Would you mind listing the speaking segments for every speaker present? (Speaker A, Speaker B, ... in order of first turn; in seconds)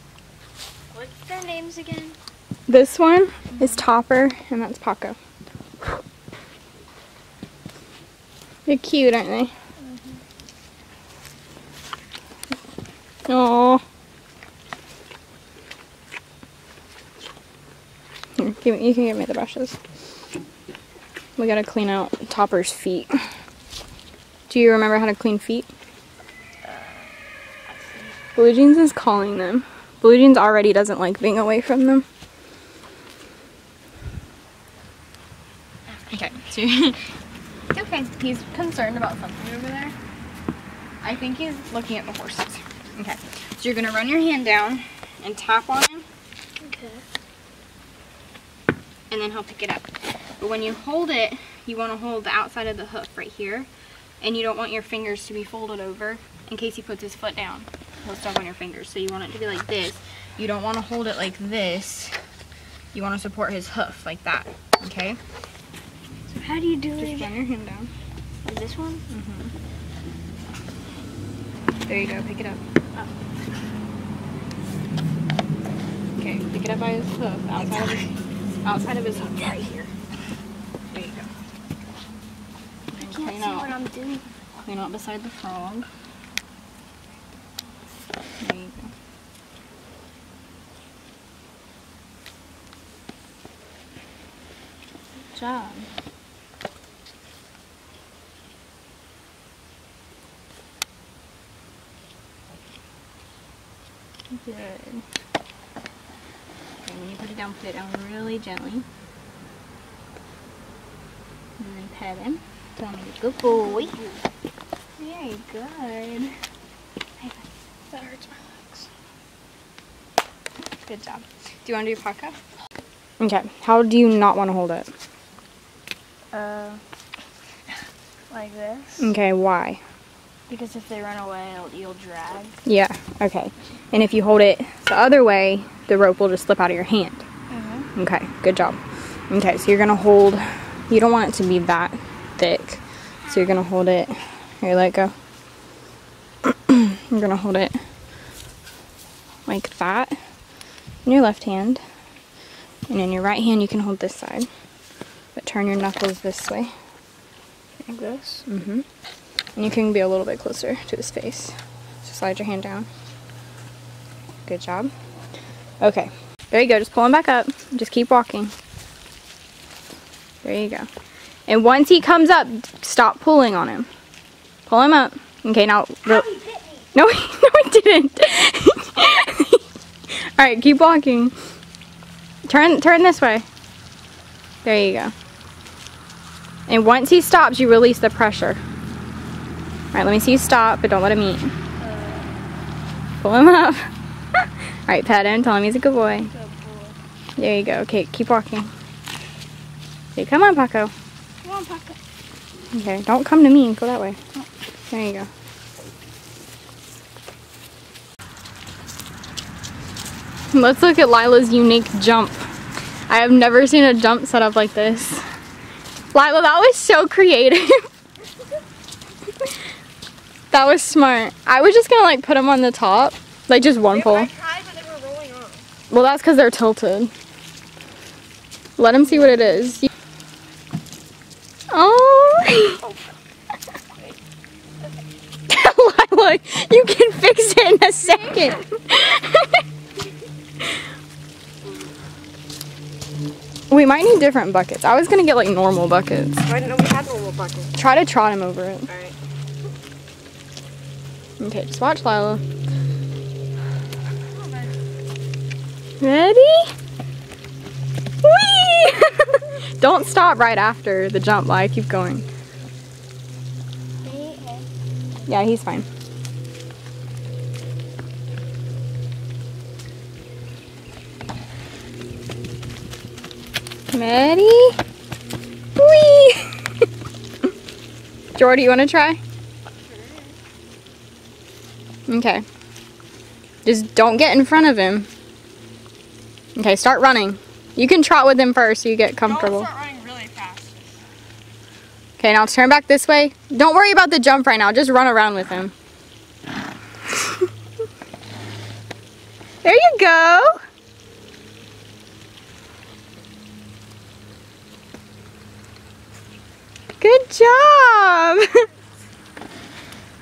Speaker A: 0.9-2.2, 9.8-10.2, 26.6-27.1, 27.7-28.1, 46.6-47.0, 66.3-67.3, 68.4-69.0, 77.6-78.0, 82.9-84.3, 113.4-114.2, 126.3-126.8, 128.3-129.1, 130.5-132.6, 137.5-137.9, 176.0-176.9, 191.8-192.2, 196.3-196.9, 201.4-202.0, 229.1-229.4, 264.0-264.7
Speaker B: 2.7-5.2, 8.7-9.5, 13.3-13.8, 18.4-19.8, 21.4-23.2, 24.5-25.7, 28.3-32.0, 36.1-37.0, 37.7-39.9, 41.0-46.0, 49.1-49.9, 50.4-53.7, 54.2-62.1, 62.9-65.2, 66.5-67.9, 69.1-69.5, 71.9-72.6, 76.2-78.1, 78.6-79.9, 80.9-81.3, 82.9-83.8, 84.6-85.9, 88.4-88.9, 95.3-95.9, 104.3-105.0, 106.8-108.8, 111.6-113.9, 115.0-116.3, 117.2-118.9, 120.9-122.4, 123.2-124.9, 129.0-129.8, 132.6-137.2, 137.9-138.8, 139.3-145.1, 146.4-147.8, 149.5-150.2, 151.0-151.8, 152.9-154.5, 155.3-156.7, 157.8-158.8, 159.6-162.9, 164.4-164.9, 165.8-168.5, 170.4-170.9, 171.5-173.9, 174.7-176.3, 176.9-179.6, 180.1-181.3, 182.5-183.4, 184.6-185.1, 186.7-188.6, 189.9-191.5, 193.2-193.9, 194.9-196.3, 197.4-198.7, 200.2-200.9, 202.7-204.2, 204.9-205.3, 210.5-212.4, 213.1-215.2, 216.1-217.9, 220.5-224.3, 225.9-227.1, 228.8-229.8, 231.7-232.8, 235.5-239.6, 243.7-246.5, 247.7-248.9, 251.4-252.4, 256.0-256.7, 258.2-262.2, 265.3-265.9, 273.9-274.8, 275.8-276.6, 278.3-279.2, 282.1-282.4, 283.6-285.1, 286.6-289.7, 292.2-295.7, 297.1-297.4, 299.6-300.6, 307.0-308.6
Speaker C: 223.9-225.6, 246.4-247.7, 248.9-249.1, 279.9-280.3, 289.2-291.0